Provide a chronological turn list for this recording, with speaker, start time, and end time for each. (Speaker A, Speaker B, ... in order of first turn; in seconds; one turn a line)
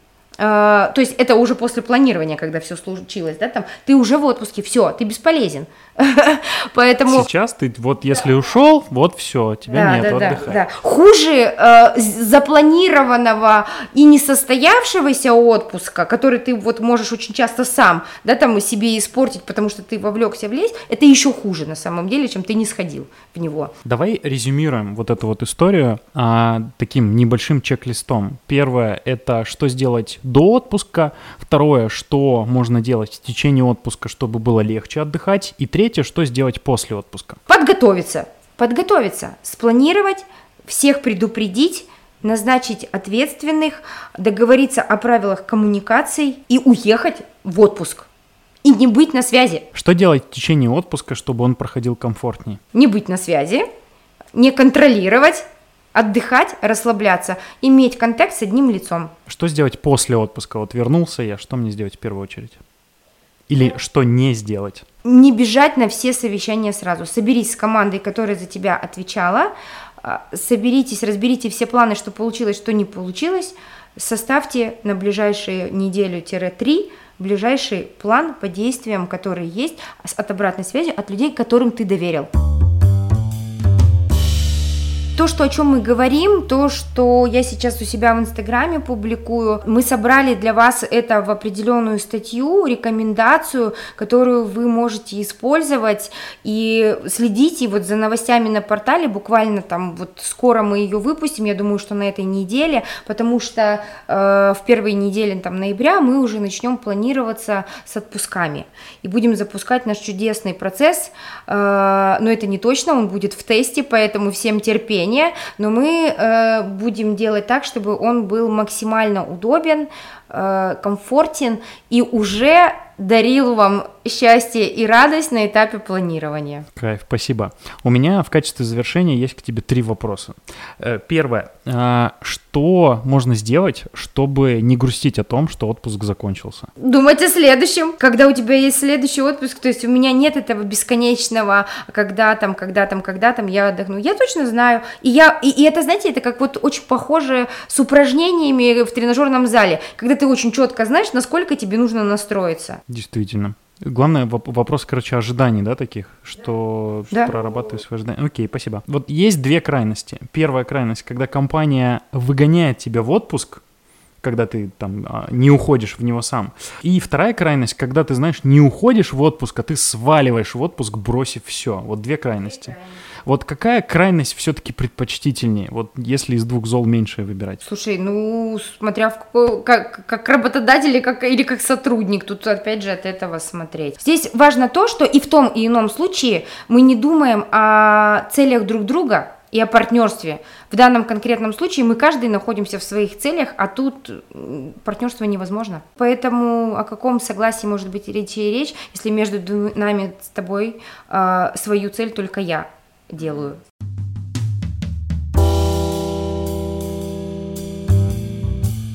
Speaker A: 0.4-7.3
Speaker B: 7.1-10.6
Speaker A: 9.7-23.7
Speaker B: 23.9-37.4
Speaker A: 37.5-48.1
Speaker A: 48.6-49.7
Speaker B: 49.7-52.6
Speaker A: 52.7-53.6
Speaker A: 54.4-59.1
Speaker B: 59.3-62.6
Speaker B: 63.5-64.8
Speaker A: 65.0-69.5
Speaker A: 70.0-82.3
Speaker A: 85.2-126.7
Speaker B: 126.8-136.7
Speaker A: 136.8-152.8
Speaker B: 152.9-163.6
Speaker B: 164.2-177.6
Speaker A: 177.6-203.6